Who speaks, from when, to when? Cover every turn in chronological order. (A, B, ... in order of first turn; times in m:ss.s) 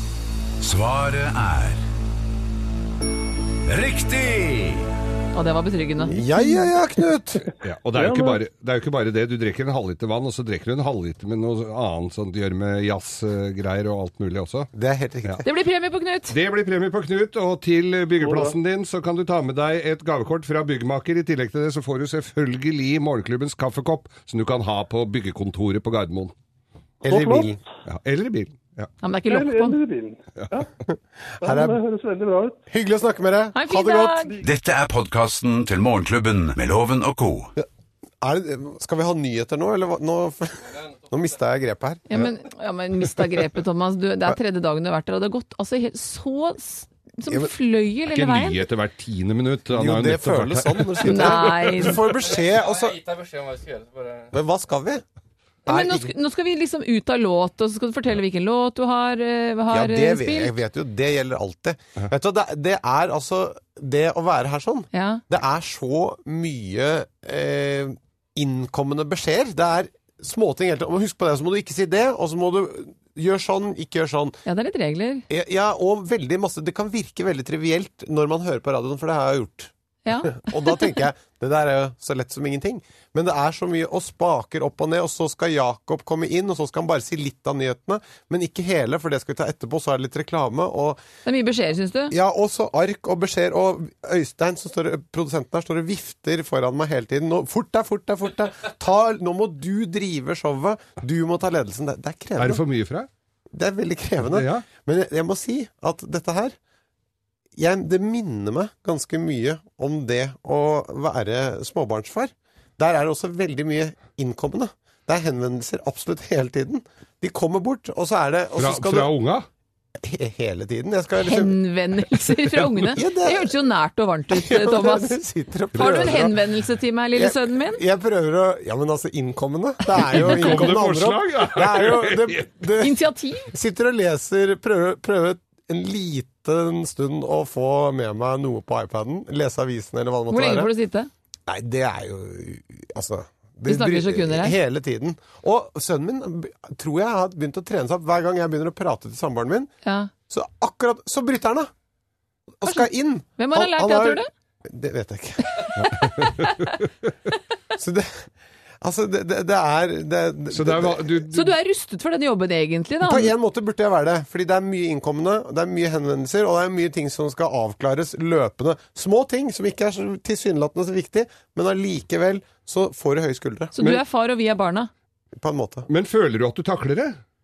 0:00.6-0:01.8 A
0:03.7-0:04.9 A
0:05.3-0:06.6 B
0:06.0-0:07.4 C
0:07.6-0:14.7 D
0:08.0-0:08.4 E
0:14.8-0:15.4 C
0:15.4-0:16.4 B
0:16.3-0:26.3 D
0:18.2-0:18.6 E
0:27.0-0:27.6 C
0:27.1-0:27.6 E
0:27.9-0:28.9 D
0:29.0-0:29.8 B
0:29.3-0:30.7 E
0:30.9-0:31.8 C
0:31.4-0:32.6 E
0:32.7-0:34.3 C
0:33.5-0:34.4 B
0:34.4-0:37.5 A
0:38.2-0:42.1 C
0:40.7-0:41.3 F
0:42.1-0:48.6 B
0:48.1-0:51.4 D
0:49.7-0:53.0 C
0:51.0-0:52.0 B
0:52.2-0:54.3 F
0:54.3-0:55.0 C
0:55.7-0:56.1 C
0:55.7-1:00.6 B
0:59.7-1:14.4 C
1:04.9-1:05.2 B
1:14.5-1:15.3 B
1:15.3-1:19.7 C
1:20.0-1:21.0 B
1:20.2-1:31.0 C
1:31.2-1:32.1 B
1:32.1-1:42.6 C
1:42.4-1:43.1 D
1:43.5-1:46.6 C
1:44.2-1:44.7 D
1:47.6-1:59.1 C
1:58.6-1:59.5 D
2:00.0-2:01.6 C
2:01.2-2:05.2 B
2:02.9-2:03.5 C
2:04.3-2:06.4 C
2:05.8-2:07.8 B
2:07.2-2:20.7 C
2:10.0-2:12.5 D
2:12.8-2:13.5 B
2:20.3-2:21.1 B
2:21.5-2:29.7 C
2:23.7-2:24.6 B
2:29.8-2:30.1 B
2:30.3-2:31.7 C
2:32.6-2:35.6 C
2:32.6-2:34.3 B
2:35.8-2:36.7 D
2:37.8-2:38.3 C
2:38.8-2:41.2 C
2:40.5-2:41.5 D
2:41.3-2:43.3 B
2:43.0-2:53.7 C
2:53.8-2:54.9 B
2:55.4-2:55.9 C
2:55.9-2:57.2 D